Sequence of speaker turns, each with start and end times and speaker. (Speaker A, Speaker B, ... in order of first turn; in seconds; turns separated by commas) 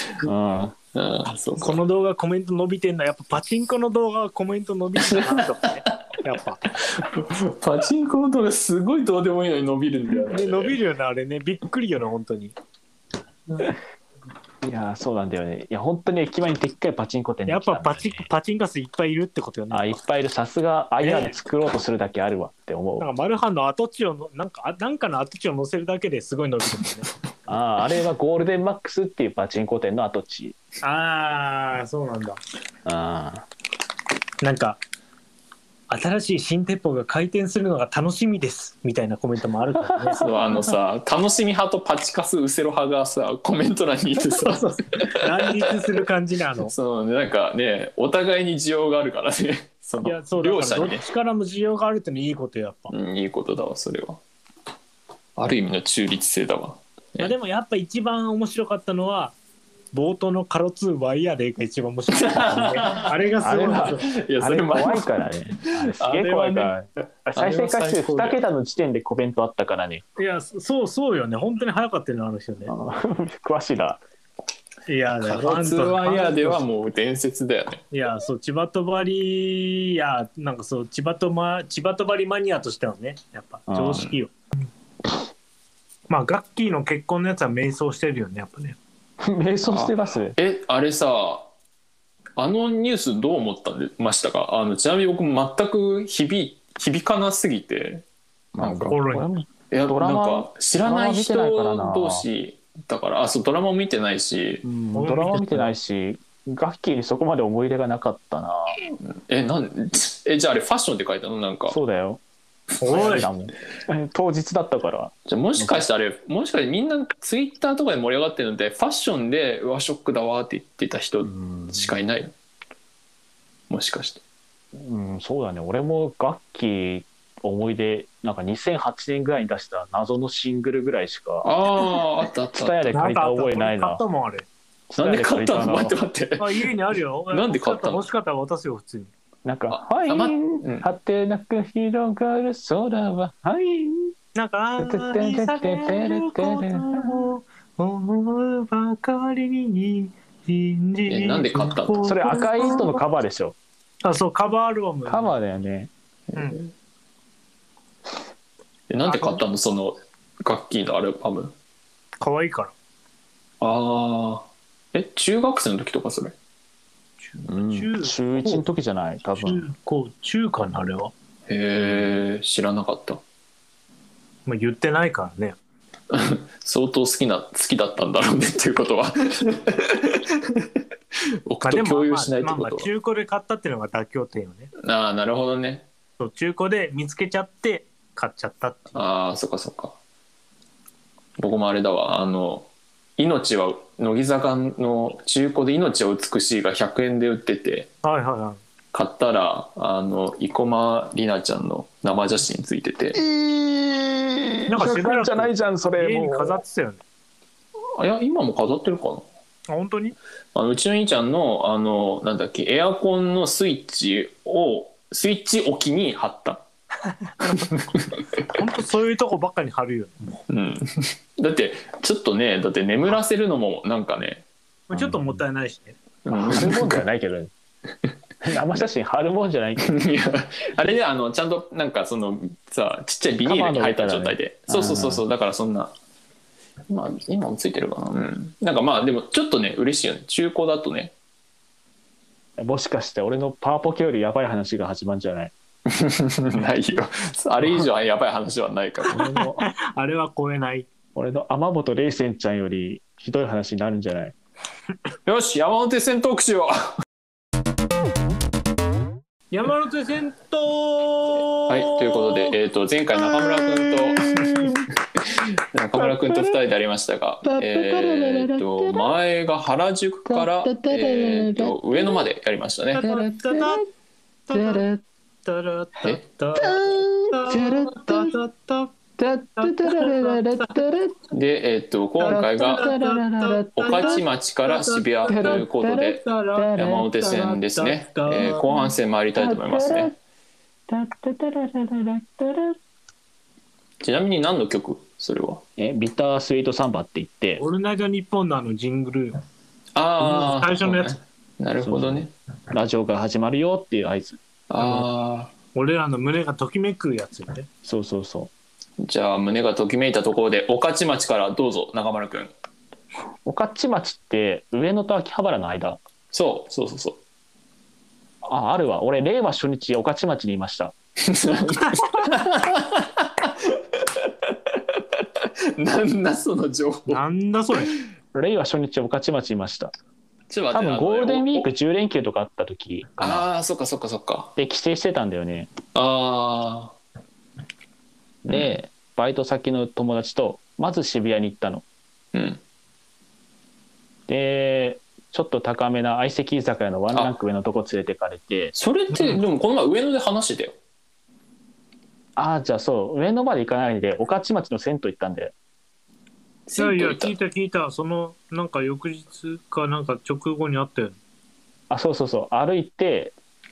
Speaker A: 0.2-0.8, Speaker B: 0.9-1.8, Speaker C: 1.6-6.6, Speaker B: 5.0-5.9, Speaker B: 6.8-10.8, Speaker C: 10.3-12.6, Speaker A: 14.6-18.3, Speaker C: 17.5-20.0, Speaker A: 19.7-23.1, Speaker C: 21.0-21.4, Speaker C: 23.0-27.1, Speaker A: 27.5-30.6, Speaker C: 30.8-32.4, Speaker A: 32.9-33.5, Speaker C: 34.4-34.8, Speaker C: 35.9-40.3, Speaker A: 40.0-40.3, Speaker B: 40.2-45.5, Speaker C: 44.3-46.7, Speaker B: 46.7-51.0, Speaker C: 50.0-52.9, Speaker B: 52.9-54.2, Speaker B: 55.4-57.3, Speaker C: 57.2-59.4, Speaker C: 59.9-64.1, Speaker B: 62.1-63.1, Speaker A: 63.4-70.0, Speaker B: 63.7-65.1, Speaker B: 65.7-66.7, Speaker B: 67.3-68.4, Speaker C: 70.2-72.7, Speaker A: 72.7-74.0, Speaker C: 74.9-76.6, Speaker B: 75.2-77.8, Speaker C: 77.9-84.3, Speaker A: 83.7-84.1, Speaker C: 86.1-88.8, Speaker A: 89.2-90.4, Speaker B: 89.7-91.5, Speaker B: 92.4-98.0, Speaker A: 98.5-102.3, Speaker B: 98.6-99.0, Speaker C: 98.9-99.3, Speaker B: 99.7-104.7, Speaker A: 104.6-108.8, Speaker C: 105.0-105.7, Speaker B: 109.0-111.8, Speaker A: 111.7-112.2, Speaker C: 112.8-113.3, Speaker A: 112.9-115.8, Speaker B: 115.3-122.3, Speaker A: 121.3-121.9, Speaker B: 123.7-124.2, Speaker A: 124.8-131.5, Speaker B: 131.4-133.0, Speaker A: 132.5-134.0, Speaker C: 132.9-134.5, Speaker A: 134.9-136.0, Speaker B: 135.0-136.7, Speaker C: 136.4-139.1, Speaker B: 137.3-138.1, Speaker A: 139.4-144.2, Speaker B: 139.7-140.9, Speaker C: 144.3-153.0, Speaker A: 144.8-147.3, Speaker B: 151.1-152.0, Speaker A: 152.0-153.6, Speaker C: 154.0-155.3, Speaker A: 155.1-155.9, Speaker B: 156.3-156.7, Speaker B: 158.9-161.5, Speaker C: 159.1-159.4, Speaker C: 162.2-162.7, Speaker B: 163.6-166.3, Speaker C: 167.2-168.7, Speaker A: 167.5-169.6, Speaker C: 169.4-171.1, Speaker B: 171.5-173.2, Speaker C: 174.5-175.6, Speaker B: 176.1-180.7, Speaker B: 181.5-182.9, Speaker C: 181.6-184.7, Speaker B: 184.8-185.9, Speaker C: 186.2-189.0, Speaker B: 188.9-190.0, Speaker B: 191.4-197.9, Speaker C: 198.0-198.6, Speaker B: 198.9-203.2, Speaker A: 203.2-206.6, Speaker C: 204.7-207.0, Speaker B: 208.0-209.3, Speaker C: 209.7-210.2, Speaker B: 210.6-216.6, Speaker C: 217.4-217.7, Speaker B: 217.5-218.2, Speaker C: 218.4-220.4, Speaker B: 220.5-224.4, Speaker C: 224.9-226.0, Speaker A: 224.9-225.4, Speaker B: 226.2-227.0, Speaker A: 226.3-227.5, Speaker A: 228.4-229.9, Speaker B: 229.8-235.9, Speaker A: 233.4-235.2, Speaker B: 236.9-241.1, Speaker A: 242.6-245.5, Speaker B: 245.9-249.2, Speaker C: 249.1-250.9, Speaker A: 249.1-249.7, Speaker A: 251.2-254.3, Speaker B: 255.3-257.0, Speaker C: 259.5-262.5, Speaker B: 261.7-273.1, Speaker A: 263.4-264.8, Speaker A: 266.0-266.6, Speaker A: 267.4-269.1, Speaker A: 270.3-272.2, Speaker C: 272.9-273.9, Speaker A: 273.0-273.8, Speaker C: 274.5-274.9, Speaker A: 274.5-275.0, Speaker C: 275.4-278.9, Speaker A: 276.6-278.4, Speaker A: 279.2-281.2, Speaker C: 279.6-280.8, Speaker B: 281.3-282.9, Speaker C: 282.2-288.6, Speaker A: 282.2-284.2, Speaker B: 283.8-286.2, Speaker A: 285.3-287.1, Speaker B: 286.8-290.1, Speaker A: 288.4-288.8, Speaker A: 289.4-290.2, Speaker A: 290.9-292.8, Speaker B: 294.0-295.6, Speaker A: 295.8-297.6, Speaker C: 297.6-299.4, Speaker B: 299.9-302.3, Speaker C: 300.2-301.2, Speaker A: 301.8-304.4, Speaker B: 304.7-305.5, Speaker C: 305.7-307.7, Speaker A: 307.8-308.5, Speaker B: 309.0-312.5, Speaker A: 313.4-316.0, Speaker B: 316.3-317.2, Speaker A: 318.4-320.9, Speaker B: 321.2-327.2, Speaker C: 327.1-327.9, Speaker A: 328.3-329.9, Speaker B: 330.5-331.7, Speaker A: 330.7-333.5, Speaker B: 333.2-334.6, Speaker A: 334.6-335.7, Speaker B: 335.9-337.0, Speaker A: 338.4-341.9, Speaker B: 338.5-338.8, Speaker B: 342.3-342.6, Speaker A: 344.3-348.8, Speaker B: 348.8-350.8, Speaker A: 352.4-355.5, Speaker B: 356.7-357.4, Speaker C: 356.8-361.2, Speaker A: 361.9-363.3